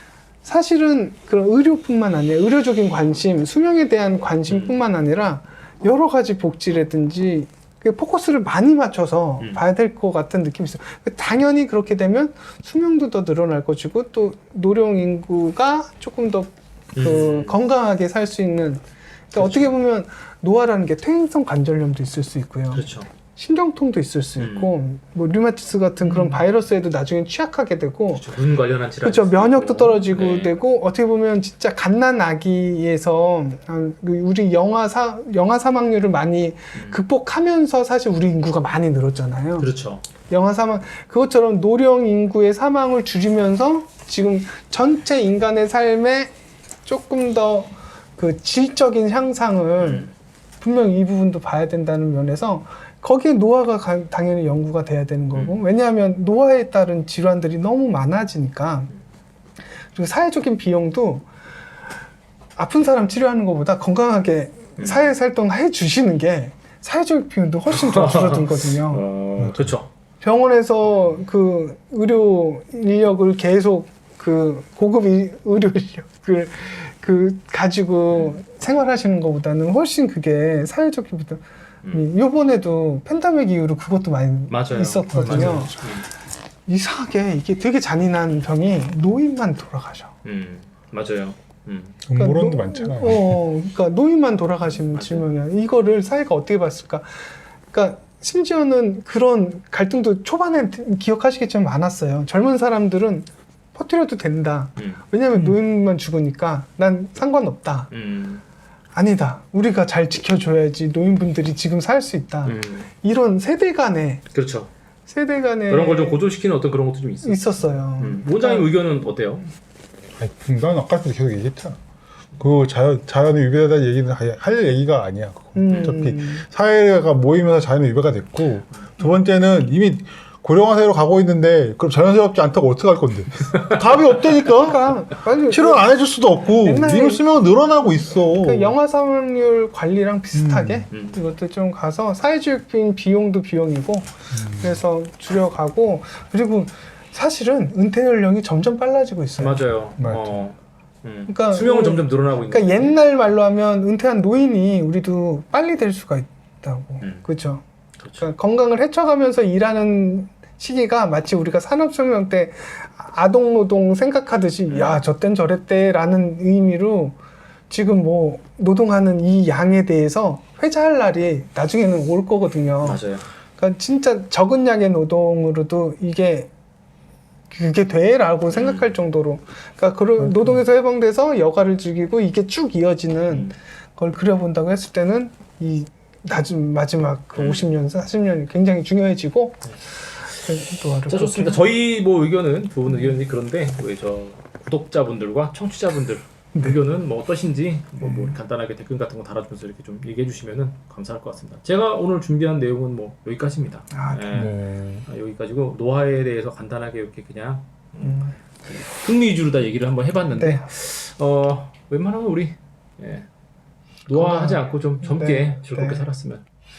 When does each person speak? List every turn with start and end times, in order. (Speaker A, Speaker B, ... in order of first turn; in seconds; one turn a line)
Speaker A: 0.4-28.2
Speaker B: 4.5-4.8
Speaker B: 9.4-9.6
Speaker B: 16.9-17.6
Speaker B: 19.4-19.7
Speaker B: 22.7-23.1
Speaker B: 24.4-24.7
Speaker B: 26.0-26.4
Speaker B: 28.1-30.5
Speaker A: 29.0-39.7
Speaker B: 36.7-37.0
Speaker B: 39.6-40.0
Speaker A: 40.3-46.3
Speaker A: 46.9-50.1
Speaker B: 49.8-50.1
Speaker A: 50.6-58.9
Speaker B: 55.3-55.6
Speaker A: 59.8-61.2
Speaker A: 62.5-69.0
Speaker B: 64.8-65.1
Speaker B: 67.7-69.9
Speaker C: 69.4-69.7
Speaker A: 70.2-86.0
Speaker B: 78.1-78.4
Speaker B: 84.5-86.1
Speaker C: 85.1-85.7
Speaker A: 86.7-90.1
Speaker B: 90.2-92.0
Speaker C: 92.0-93.4
Speaker A: 92.1-107.9
Speaker B: 94.7-95.3
Speaker B: 104.8-105.5
Speaker B: 107.9-108.4
Speaker A: 108.9-114.2
Speaker B: 112.4-112.9
Speaker B: 114.3-114.7
Speaker A: 115.1-116.3
Speaker B: 115.7-119.5
Speaker A: 117.2-118.7
Speaker C: 120.2-121.8
Speaker C: 122.4-134.8
Speaker A: 125.5-126.4
Speaker B: 125.7-126.0
Speaker A: 134.4-136.0
Speaker C: 135.5-138.7
Speaker A: 136.6-137.3
Speaker A: 138.3-149.6
Speaker C: 140.3-140.8
Speaker B: 140.9-141.2
Speaker C: 144.3-144.8
Speaker B: 149.4-153.0
Speaker C: 150.0-150.4
Speaker A: 151.3-157.6
Speaker B: 158.0-158.3
Speaker A: 158.2-167.2
Speaker B: 164.7-165.0
Speaker A: 167.7-173.0
Speaker B: 172.8-173.2
Speaker A: 173.6-176.5
Speaker A: 177.5-191.6
Speaker B: 178.5-178.9
Speaker C: 180.2-180.6
Speaker B: 183.3-183.5
Speaker B: 187.3-187.8
Speaker B: 191.1-213.3
Speaker A: 192.9-193.1
Speaker A: 196.5-196.8
Speaker A: 198.0-198.4
Speaker A: 203.9-204.5
Speaker C: 204.3-205.1
Speaker A: 208.0-208.3
Speaker A: 210.3-210.7
Speaker B: 214.1-216.4
Speaker A: 214.1-216.1